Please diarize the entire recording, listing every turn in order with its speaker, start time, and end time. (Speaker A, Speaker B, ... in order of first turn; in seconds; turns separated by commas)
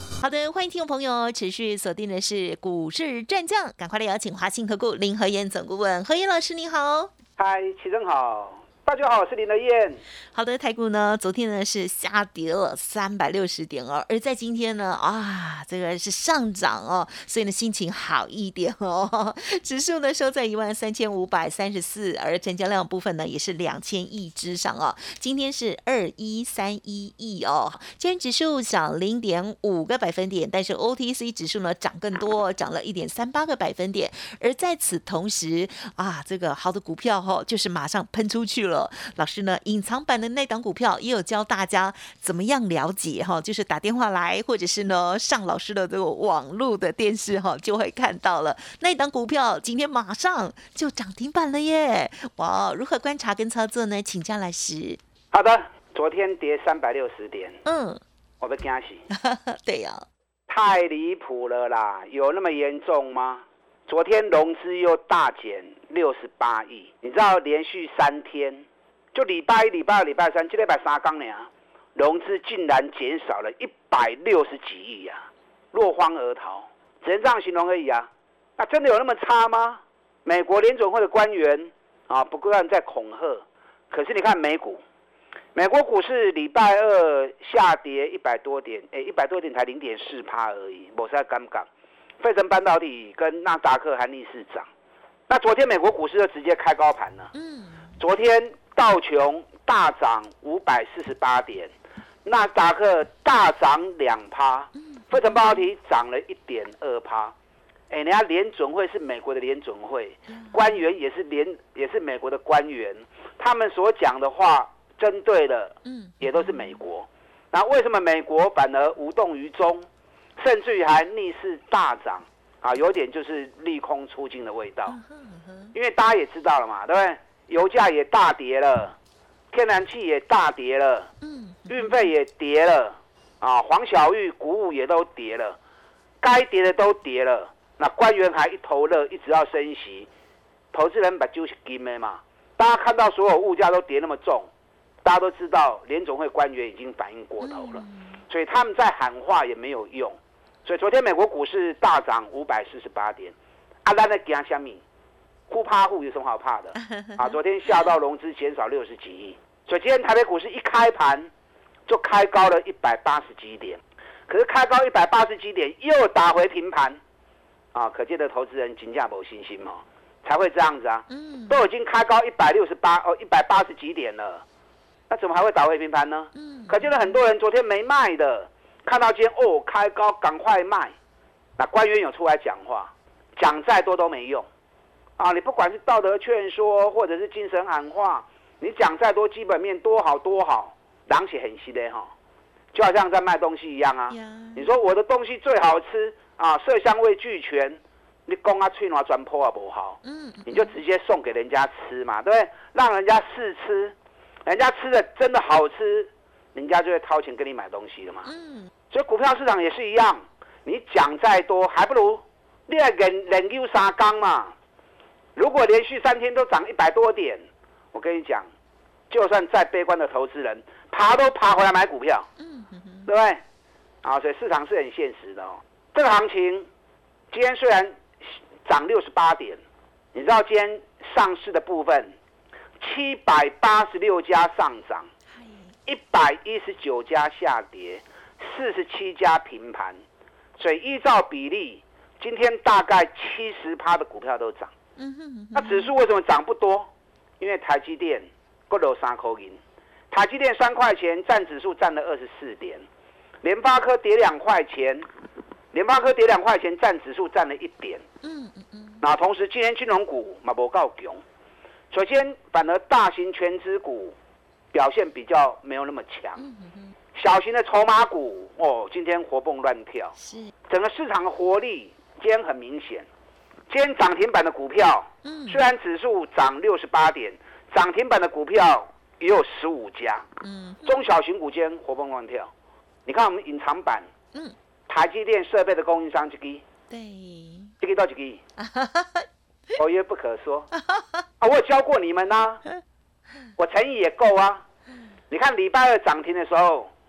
Speaker A: 0.2-7.1, Speaker B: 7.4-10.0, Speaker A: 10.3-55.0, Speaker B: 55.3-57.6, Speaker A: 57.6-58.0, Speaker B: 58.4-59.0, Speaker A: 59.1-60.0, Speaker B: 60.5-84.8, Speaker B: 85.5-91.7, Speaker B: 92.2-94.7, Speaker B: 95.3-97.3, Speaker A: 97.3-98.0, Speaker B: 98.0-101.7, Speaker B: 102.2-107.3, Speaker A: 104.8-105.7, Speaker B: 107.9-119.9, Speaker A: 110.3-110.9, Speaker A: 115.8-116.8, Speaker B: 120.4-125.0, Speaker A: 124.8-125.7, Speaker B: 125.7-128.9, Speaker B: 129.5-131.1, Speaker A: 131.2-132.1, Speaker B: 131.7-135.6, Speaker B: 136.2-140.1, Speaker B: 140.7-144.5, Speaker B: 145.0-154.8, Speaker A: 147.4-148.2, Speaker B: 155.5-161.3, Speaker A: 156.9-157.3, Speaker B: 161.9-167.0, Speaker B: 167.7-174.4, Speaker A: 171.1-171.6, Speaker B: 175.1-180.9, Speaker A: 176.3-177.2, Speaker B: 181.6-184.5, Speaker B: 185.2-192.1, Speaker B: 192.7-203.9, Speaker A: 194.1-194.7, Speaker A: 200.0-200.8, Speaker B: 204.4-208.3, Speaker A: 208.2-208.7, Speaker B: 208.9-214.5, Speaker B: 215.3-218.5, Speaker B: 219.1-222.3, Speaker A: 222.4-223.1, Speaker B: 223.1-223.4, Speaker B: 224.0-226.7, Speaker B: 227.3-228.0, Speaker B: 228.6-229.6, Speaker B: 230.1-232.1, Speaker B: 232.8-235.1, Speaker A: 235.3-235.8, Speaker B: 235.9-240.0, Speaker B: 240.6-244.7, Speaker A: 245.0-245.9, Speaker B: 245.5-249.6, Speaker B: 250.1-252.8, Speaker B: 253.4-255.1, Speaker B: 255.7-258.0, Speaker A: 258.2-259.0, Speaker B: 259.0-261.2, Speaker B: 261.9-264.1, Speaker B: 264.7-266.4, Speaker A: 266.4-266.9, Speaker B: 267.1-270.1, Speaker A: 270.2-270.5, Speaker B: 270.7-273.1, Speaker B: 273.7-280.3, Speaker A: 275.2-275.7, Speaker A: 280.4-281.0, Speaker B: 280.8-282.5, Speaker B: 283.0-284.1, Speaker B: 284.9-286.6, Speaker A: 286.9-287.7, Speaker B: 287.8-288.4, Speaker A: 288.6-289.3, Speaker B: 289.8-290.7, Speaker A: 290.8-291.2, Speaker B: 291.4-292.6, Speaker B: 293.6-294.6, Speaker B: 295.3-296.9